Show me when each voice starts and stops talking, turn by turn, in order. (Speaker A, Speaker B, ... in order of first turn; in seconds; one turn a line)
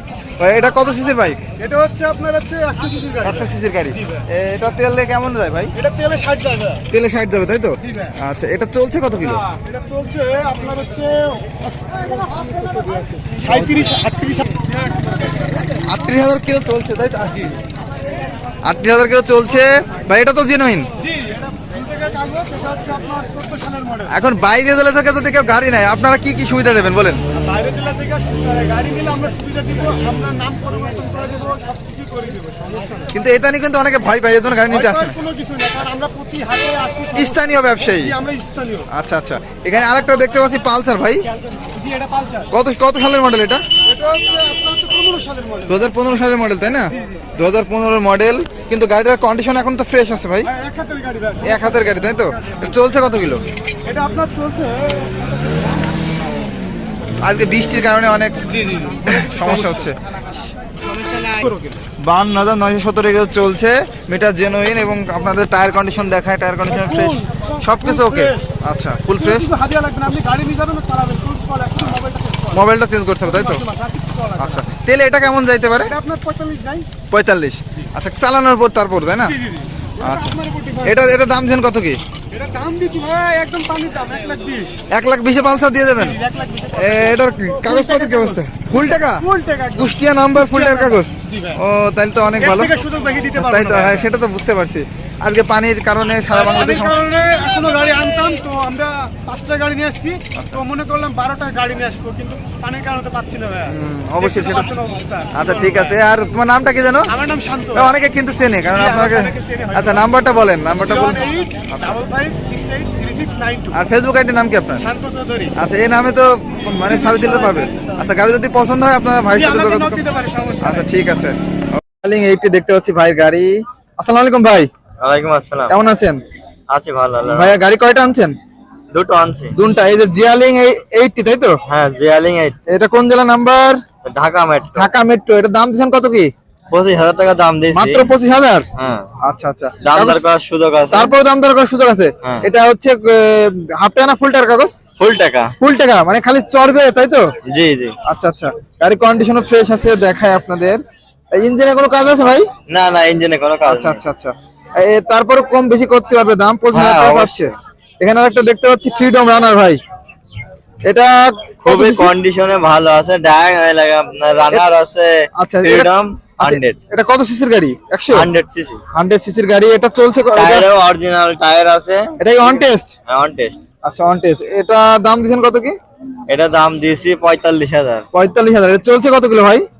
Speaker A: 0.4-1.4
Speaker B: 1.6-3.5
Speaker A: 3.2-5.7
Speaker B: 5.8-6.8
Speaker A: 6.9-9.4
Speaker B: 9.6-14.7
Speaker A: 15.7-17.6
Speaker A: 18.6-20.9
Speaker B: 21.0-24.1
Speaker A: 24.1-27.2
Speaker B: 27.4-33.1
Speaker A: 33.1-35.1
Speaker B: 34.7-38.9
Speaker A: 37.1-38.1
Speaker A: 38.9-41.3
Speaker B: 41.6-42.5
Speaker A: 42.5-43.6
Speaker B: 43.9-45.7
Speaker A: 45.7-50.5
Speaker B: 50.5-51.6
Speaker A: 51.4-53.4
Speaker B: 53.8-55.7
Speaker A: 57.2-58.5
Speaker A: 59.0-60.0
Speaker B: 61.2-61.6
Speaker A: 62.0-69.5
Speaker B: 66.7-68.5
Speaker B: 69.2-72.6
Speaker A: 72.5-73.6
Speaker B: 73.2-74.6
Speaker A: 74.4-75.9
Speaker B: 75.8-76.8
Speaker A: 77.1-79.3
Speaker B: 79.2-81.2
Speaker A: 80.0-82.0
Speaker B: 82.3-84.7
Speaker A: 84.9-86.2
Speaker B: 86.0-88.4
Speaker A: 86.8-92.7
Speaker B: 89.2-91.6
Speaker B: 92.4-94.0
Speaker A: 93.4-97.0
Speaker B: 96.3-106.0
Speaker A: 103.6-104.7
Speaker A: 105.3-107.1
Speaker B: 107.1-107.9
Speaker A: 107.7-112.0
Speaker B: 108.7-110.1
Speaker B: 110.8-113.7
Speaker A: 113.7-114.8
Speaker B: 114.8-115.5
Speaker A: 115.5-120.0
Speaker B: 116.9-118.0
Speaker B: 119.3-120.9
Speaker A: 120.6-124.7
Speaker C: 125.0-125.7
Speaker A: 125.7-126.2
Speaker C: 126.7-127.6
Speaker A: 127.3-128.3
Speaker C: 128.9-129.5
Speaker A: 129.6-131.5
Speaker C: 131.7-132.6
Speaker A: 132.7-133.8
Speaker C: 134.0-134.9
Speaker A: 134.7-136.3
Speaker C: 136.7-138.1
Speaker A: 137.7-138.7
Speaker C: 138.8-139.0
Speaker A: 139.2-140.3
Speaker C: 139.8-141.1
Speaker A: 140.9-144.8
Speaker C: 145.0-145.5
Speaker A: 145.6-147.2
Speaker C: 147.5-147.9
Speaker A: 148.1-150.8
Speaker A: 151.3-152.5
Speaker C: 152.7-154.0
Speaker A: 153.7-159.8
Speaker C: 156.7-157.5
Speaker A: 160.8-162.1
Speaker C: 161.6-166.8
Speaker A: 165.4-165.9
Speaker A: 166.4-168.3
Speaker C: 168.1-168.8
Speaker A: 168.9-170.7
Speaker C: 170.3-172.1
Speaker A: 172.2-172.9
Speaker C: 173.1-173.6
Speaker A: 173.8-175.7
Speaker C: 176.3-178.1
Speaker A: 178.1-179.6